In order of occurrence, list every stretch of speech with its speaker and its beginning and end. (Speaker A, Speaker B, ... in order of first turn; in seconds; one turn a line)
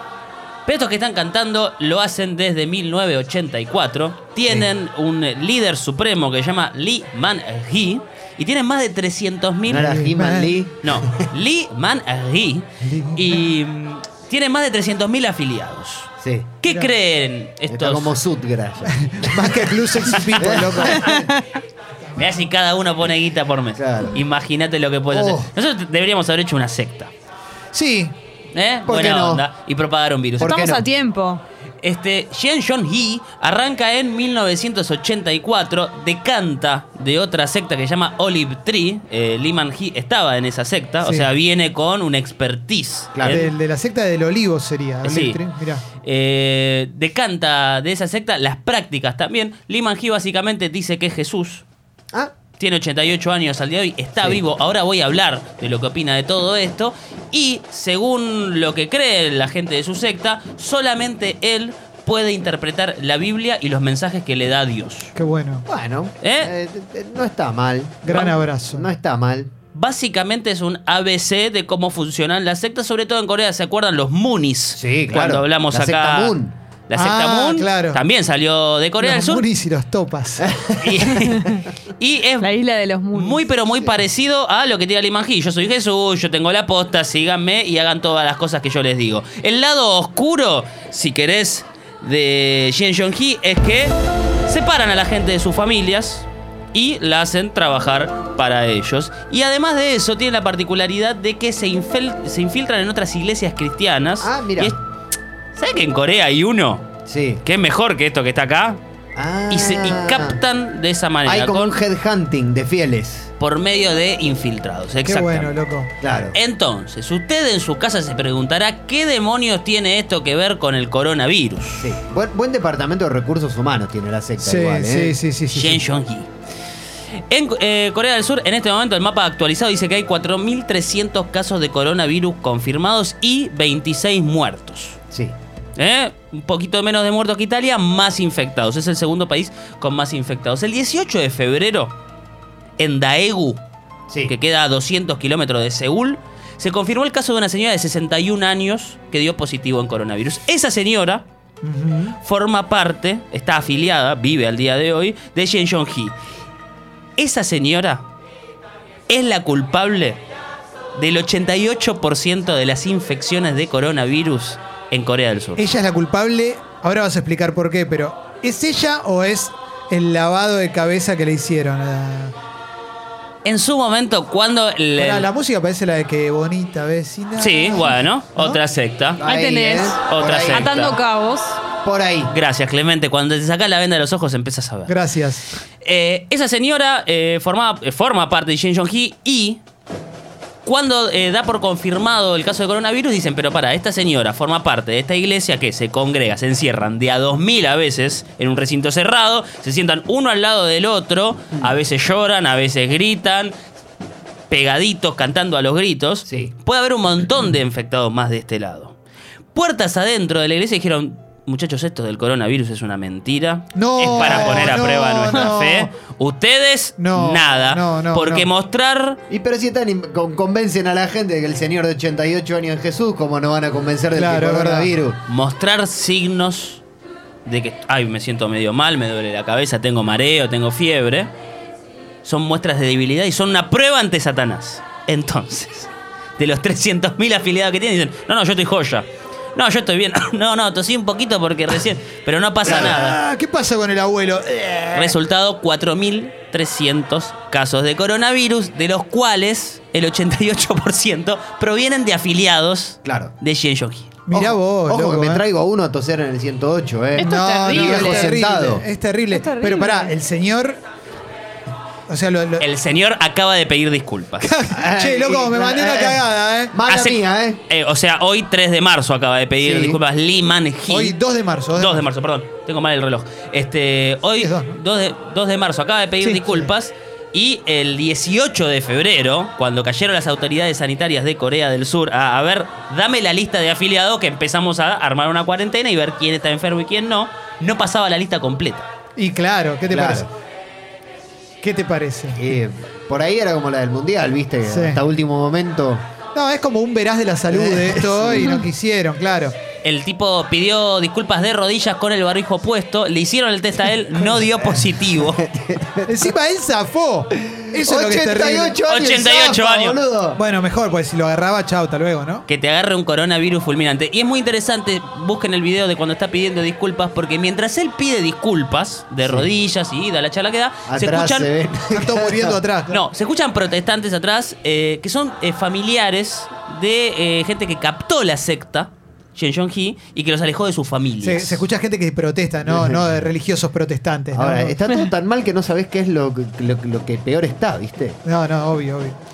Speaker A: 0.7-9.9
Speaker B: 9.7-11.3
Speaker C: 9.7-10.5
Speaker A: 10.8-16.1
Speaker C: 12.8-13.4
Speaker B: 16.2-16.5
Speaker A: 16.6-18.1
Speaker C: 16.6-16.9
Speaker B: 17.7-21.1
Speaker C: 18.9-21.3
Speaker D: 21.0-21.4
Speaker C: 22.1-22.4
Speaker A: 22.1-27.1
Speaker B: 23.8-24.2
Speaker B: 25.1-25.5
Speaker C: 27.7-28.1
Speaker A: 28.5-30.7
Speaker B: 28.8-29.4
Speaker B: 30.4-30.8
Speaker D: 30.4-31.4
Speaker A: 31.8-43.4
Speaker C: 41.0-41.3
Speaker B: 43.1-43.4
Speaker C: 43.2-45.8
Speaker A: 45.0-45.4
Speaker A: 46.0-51.6
Speaker A: 52.6-65.1
Speaker C: 65.1-65.7
Speaker B: 65.7-69.5
Speaker A: 66.2-66.5
Speaker C: 68.0-68.9
Speaker A: 68.1-68.3
Speaker A: 69.7-76.3
Speaker B: 74.8-76.5
Speaker A: 76.9-79.4
Speaker C: 76.9-78.0
Speaker C: 79.0-80.5
Speaker B: 80.5-81.3
Speaker A: 80.8-82.5
Speaker D: 82.4-83.4
Speaker A: 83.1-93.9
Speaker A: 94.5-104.8
Speaker B: 104.2-104.7
Speaker A: 105.5-106.9
Speaker B: 107.0-107.4
Speaker A: 107.4-108.8
Speaker B: 109.2-110.4
Speaker A: 109.5-111.8
Speaker B: 111.2-113.3
Speaker A: 113.4-115.6
Speaker C: 115.0-115.9
Speaker B: 116.0-116.3
Speaker A: 116.3-122.0
Speaker B: 121.8-125.2
Speaker C: 124.4-125.8
Speaker A: 125.5-126.3
Speaker A: 127.3-135.0
Speaker A: 135.8-141.9
Speaker A: 142.8-143.6
Speaker A: 144.2-151.2
Speaker C: 151.6-152.2
Speaker A: 152.1-156.2
Speaker A: 157.2-158.0
Speaker A: 159.1-160.2
Speaker A: 160.9-165.6
Speaker C: 165.6-172.3
Speaker A: 173.4-175.3
Speaker C: 175.0-178.6
Speaker A: 177.4-179.2
Speaker B: 179.2-180.8
Speaker D: 179.2-181.6
Speaker A: 180.1-181.0
Speaker B: 181.8-182.3
Speaker A: 182.3-184.9
Speaker C: 184.9-185.4
Speaker A: 185.8-189.6
Speaker A: 190.6-203.5
Speaker A: 204.5-208.9
Speaker B: 206.2-206.5
Speaker A: 209.5-219.2
Speaker C: 213.7-215.9
Speaker B: 214.2-214.6
Speaker C: 217.0-218.5
Speaker B: 219.3-225.2
Speaker C: 224.1-224.9
Speaker A: 225.3-226.8
Speaker A: 227.4-231.3
Speaker A: 232.2-243.2
Speaker C: 242.6-245.2
Speaker A: 244.9-254.1
Speaker B: 253.0-253.3
Speaker C: 254.3-255.4
Speaker B: 254.3-258.8
Speaker D: 257.1-258.4
Speaker C: 257.2-260.8
Speaker D: 259.3-260.1
Speaker C: 262.1-262.6
Speaker A: 262.6-264.5
Speaker C: 264.4-266.8
Speaker B: 264.7-267.6
Speaker A: 266.9-271.2
Speaker B: 269.6-270.0
Speaker C: 270.9-272.0
Speaker A: 271.7-288.9
Speaker C: 274.4-274.8
Speaker C: 276.2-276.7
Speaker C: 289.2-290.3
Speaker B: 289.9-290.3
Speaker C: 291.6-292.5
Speaker B: 292.4-296.0
Speaker C: 294.6-295.0
Speaker C: 296.3-299.5
Speaker B: 297.5-298.6
Speaker A: 299.8-305.4
Speaker B: 304.6-306.3
Speaker C: 306.1-308.8
Speaker B: 307.7-310.4
Speaker A: 308.9-310.0
Speaker C: 310.4-312.4
Speaker A: 312.5-321.5
Speaker B: 320.9-322.6
Speaker C: 321.9-323.0
Speaker A: 322.9-331.6
Speaker C: 331.2-334.8
Speaker B: 332.6-333.2
Speaker B: 334.3-338.2
Speaker C: 338.2-339.2